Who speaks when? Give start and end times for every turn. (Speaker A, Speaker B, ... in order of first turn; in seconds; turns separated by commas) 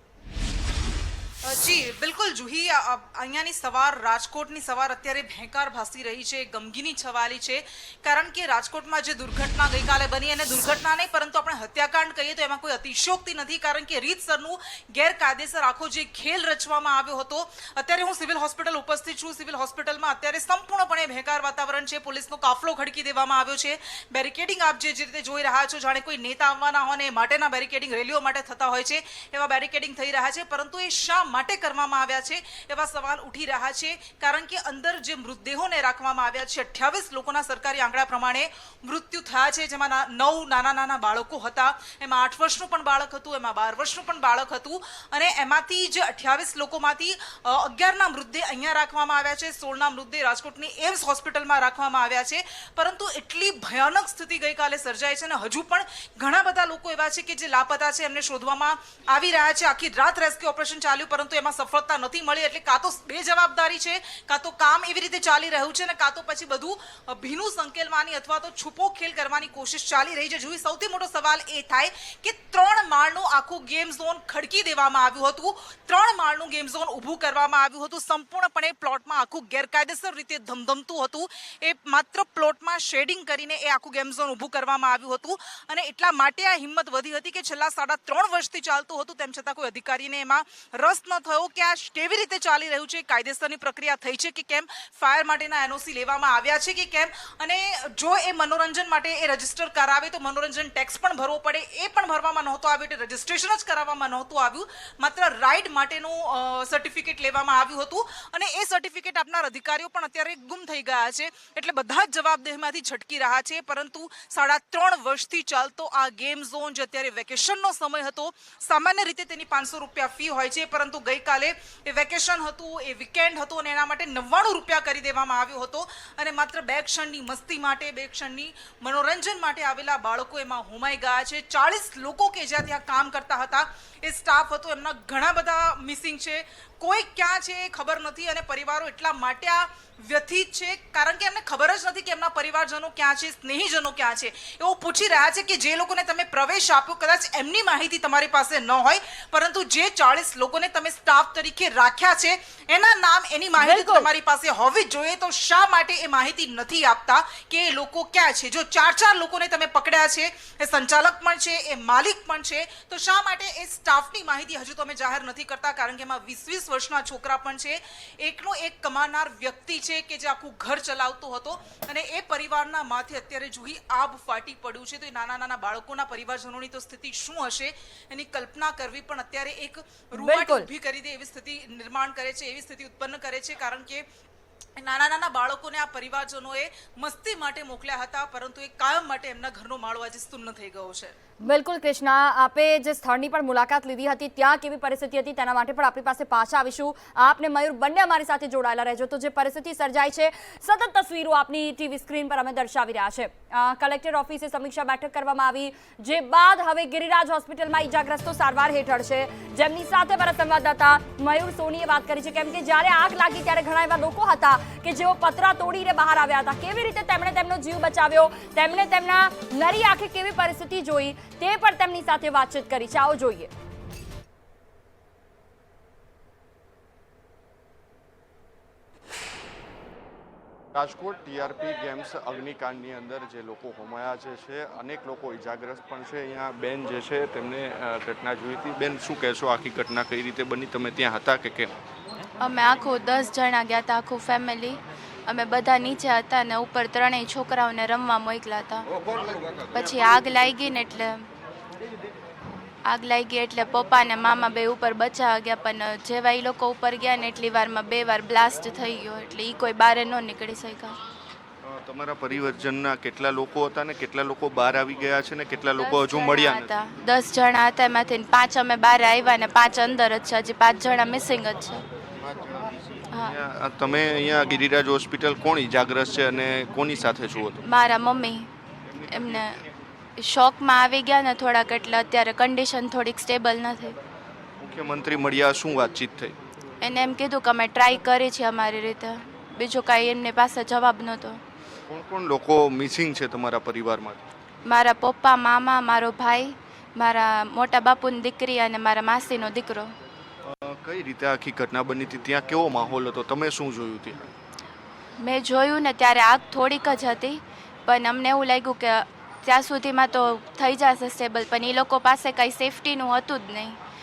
Speaker A: 1.4-184.0, Speaker B: 153.6-154.1, Speaker B: 180.2-180.7, Speaker A: 184.8-191.1, Speaker B: 191.4-223.5, Speaker C: 230.7-241.7, Speaker D: 242.4-248.9, Speaker D: 249.7-251.3, Speaker D: 252.9-261.0, Speaker C: 261.6-266.7, Speaker D: 265.8-271.8, Speaker C: 272.2-277.6, Speaker D: 277.6-278.5, Speaker C: 278.9-279.5, Speaker D: 279.1-279.6, Speaker D: 280.2-284.0, Speaker C: 284.6-286.3, Speaker D: 286.8-291.4, Speaker C: 291.9-294.2, Speaker D: 294.7-299.9, Speaker C: 300.4-304.2, Speaker D: 305.2-313.8